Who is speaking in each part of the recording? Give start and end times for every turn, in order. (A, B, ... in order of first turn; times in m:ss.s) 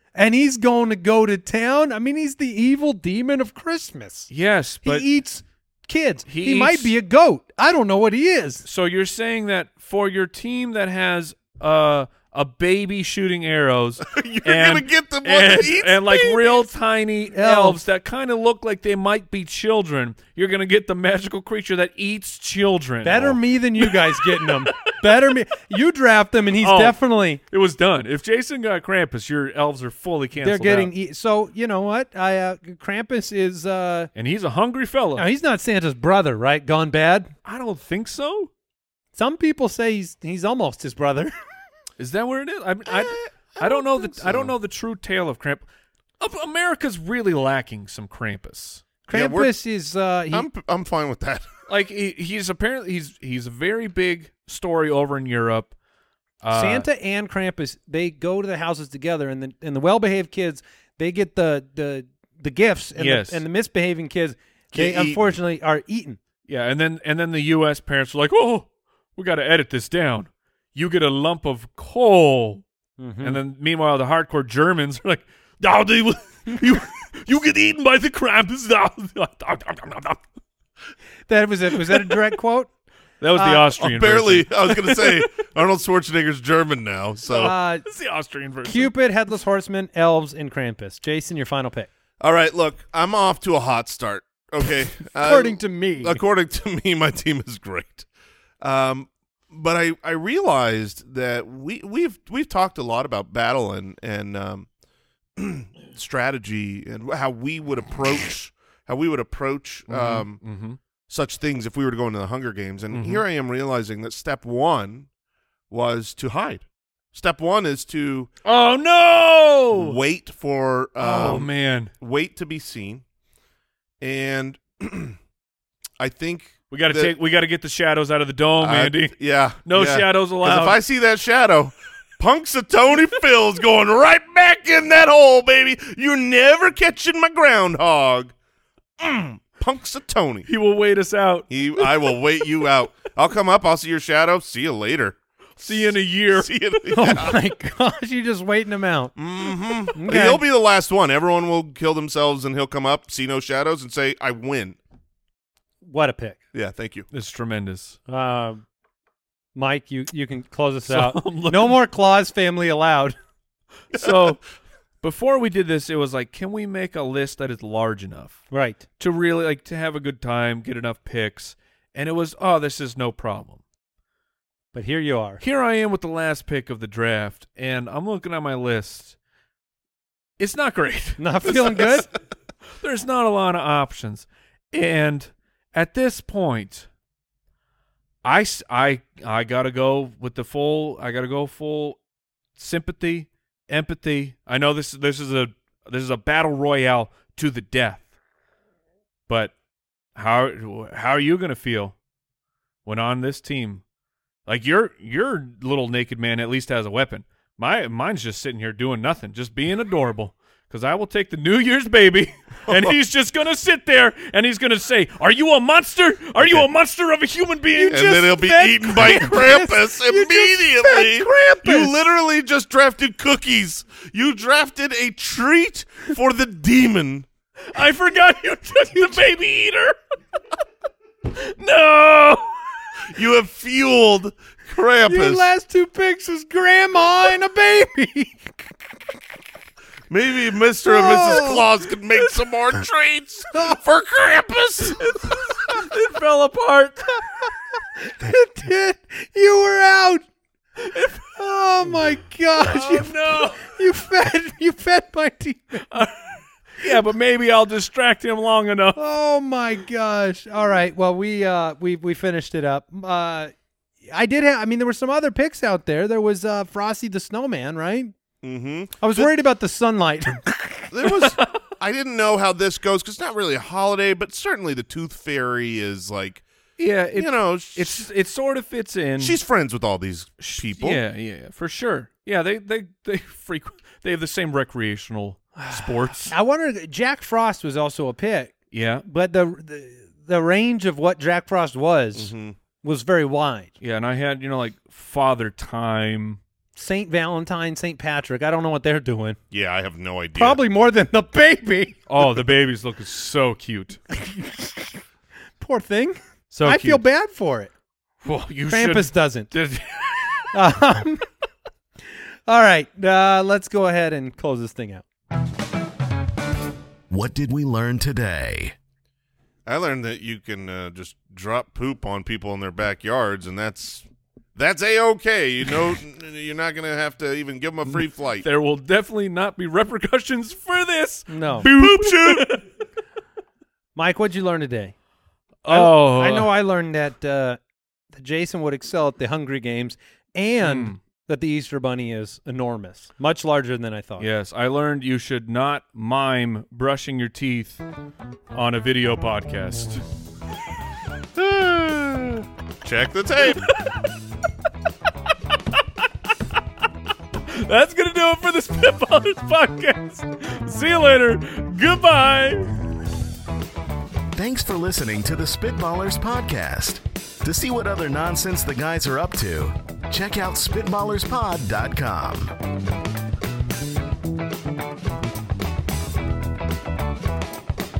0:00.1-0:04.3 A
0:04.3-0:05.1 B
0:04.8-0:08.6 A
0:06.3-0:06.9 B
0:08.6-0:24.7 B
0:14.0-0:16.6 C
0:17.3-0:17.8 A
0:23.0-0:27.4 A
0:26.6-0:27.0 B
0:27.5-0:30.9 B
0:30.4-0:34.1 A
0:34.1-0:35.2 B
0:35.2-0:37.3 A
0:37.4-0:38.5 B
0:39.1-0:41.3 A
0:42.0-0:45.6 B
0:43.6-0:44.5 C
0:46.2-0:48.8 B
0:49.1-0:50.5 A
0:49.1-0:49.6 C
0:50.3-0:51.5 C
0:51.7-0:55.7 B
0:56.4-0:56.8 B
0:56.5-1:06.2 A
1:03.0-1:03.4 B
1:04.7-1:05.3 C
1:06.5-1:12.6 B
1:13.0-1:13.4 A
1:13.2-1:20.2 B
1:21.3-1:22.7 A
1:21.9-1:22.2 B
1:23.2-1:25.3 B
1:23.3-1:23.7 A
1:23.8-1:27.5 C
1:27.3-1:28.9 B
1:27.4-1:27.8 A
1:28.6-1:31.9 A
1:32.2-1:38.1 C
1:35.2-1:36.2 A
1:38.6-1:44.7 C
1:45.4-1:50.4 C
1:49.9-1:50.8 B
1:51.1-1:55.1 C
1:52.9-1:53.2 B
1:55.7-1:58.3 C
1:58.4-2:00.0 B
1:59.7-2:03.0 C
2:01.0-2:01.9 B
2:04.0-2:05.2 C
2:06.0-2:07.1 C
2:06.7-2:10.8 B
2:08.6-2:18.3 C
2:19.0-2:20.5 C
2:20.4-2:22.0 B
2:21.5-2:27.4 C
2:25.6-2:27.1 B
2:26.9-2:29.2 A
2:29.2-2:34.8 C
2:29.8-2:30.4 A
2:35.8-2:36.4 A
2:36.5-2:37.1 C
2:37.1-2:38.0 B
2:38.1-2:38.6 A
2:39.5-2:43.2 A
2:40.9-2:41.8 B
2:43.9-2:44.4 B
2:43.9-2:44.3 C
2:45.0-2:48.4 B
2:48.5-2:48.8 A
2:49.0-2:53.6 B
2:54.7-2:55.4 A
2:55.4-2:59.1 B
3:00.4-3:02.1 B
3:01.2-3:02.1 A
3:02.8-3:06.9 B
3:08.2-3:12.0 B
3:12.6-3:18.1 B
3:19.3-3:19.5 B
3:20.2-3:21.9 B
3:22.8-3:23.8 B
3:24.4-3:38.2 B
3:32.7-3:32.9 C
3:37.7-3:41.9 A
3:37.9-3:47.3 C
3:47.7-3:50.0 B
3:49.0-3:49.2 A
3:51.3-3:52.8 B
3:53.1-3:55.5 C
3:55.0-3:58.5 A
4:00.1-4:05.0 C
4:00.8-4:01.6 A
4:04.9-4:07.2 B
4:08.0-4:10.2 A
4:10.8-4:11.2 B
4:11.4-4:16.1 A
4:12.6-4:13.6 B
4:16.8-4:19.0 B
4:19.0-4:23.5 A
4:24.1-4:28.1 A
4:28.4-4:29.3 C
4:29.0-4:30.9 A
4:30.9-4:36.4 C
4:31.0-4:31.5 B
4:36.8-4:39.4 B
4:37.1-4:38.0 C
4:39.2-4:41.0 C
4:40.4-4:46.3 B
4:45.6-4:48.5 A
4:48.7-4:49.0 B
4:49.0-4:53.7 A
4:52.1-4:52.6 C
4:53.8-4:56.4 B
4:56.7-4:59.4 A
4:59.5-5:00.6 C
5:00.4-5:02.0 A
5:02.1-5:04.0 B
5:04.1-5:04.8 A
5:05.6-5:07.7 A
5:06.5-5:07.0 B
5:08.2-5:10.5 B
5:08.7-5:09.5 A
5:10.5-5:11.3 A
5:12.5-5:15.0 A
5:17.1-5:18.7 D
5:19.6-5:28.4 C
5:27.9-5:32.6 B
5:31.3-5:31.7 A
5:31.6-5:32.5 C
5:33.9-5:34.9 A
5:35.6-5:36.5 B
5:35.7-5:37.6 A
5:38.1-5:44.3 A
5:40.6-5:41.0 B
5:44.2-5:47.8 B
5:48.5-5:50.0 B
5:51.3-5:53.6 C
5:53.5-5:53.8 B
5:57.5-6:02.7 B
6:04.3-6:12.5 D